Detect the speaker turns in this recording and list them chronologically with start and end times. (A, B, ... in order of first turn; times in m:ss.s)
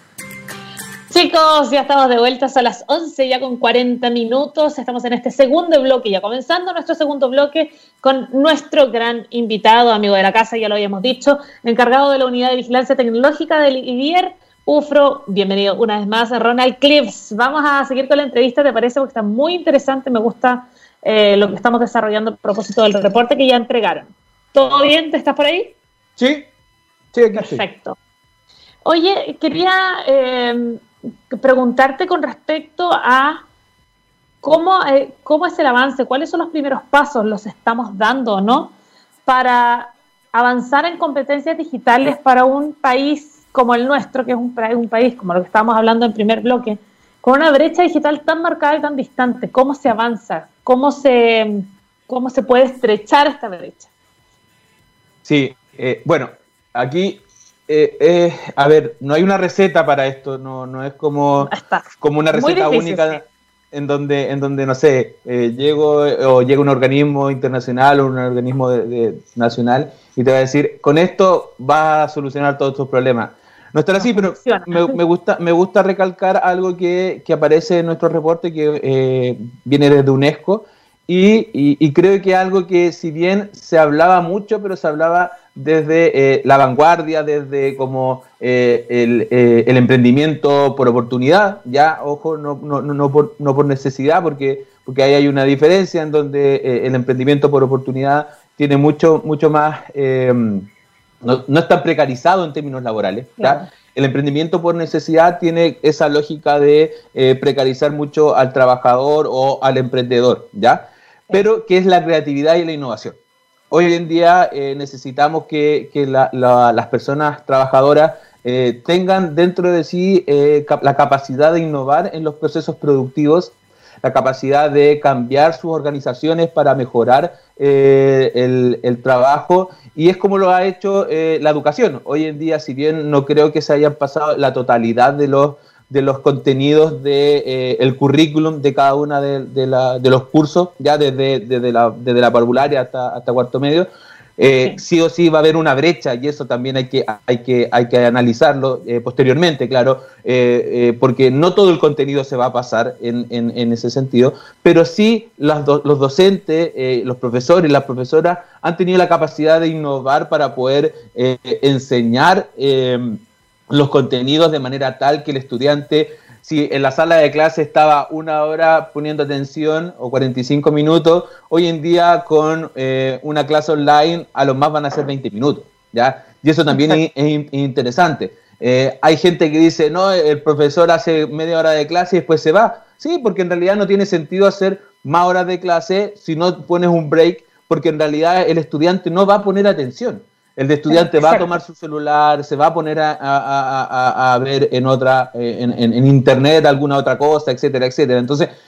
0:01.1-0:25.8 A
0:26.2-0:26.5 B
0:27.1-0:27.6 B
0:27.4-0:28.0 A
0:28.8-0:33.4 A
0:34.4-0:38.7 A
0:39.3-0:53.9 A
0:55.2-1:40.7 B
1:01.4-1:03.2 A
1:14.0-1:15.0 A
1:41.2-1:53.2 B
1:43.4-1:43.7 A
1:53.7-3:18.5 B
2:56.7-2:57.0 A
3:10.9-3:11.6 A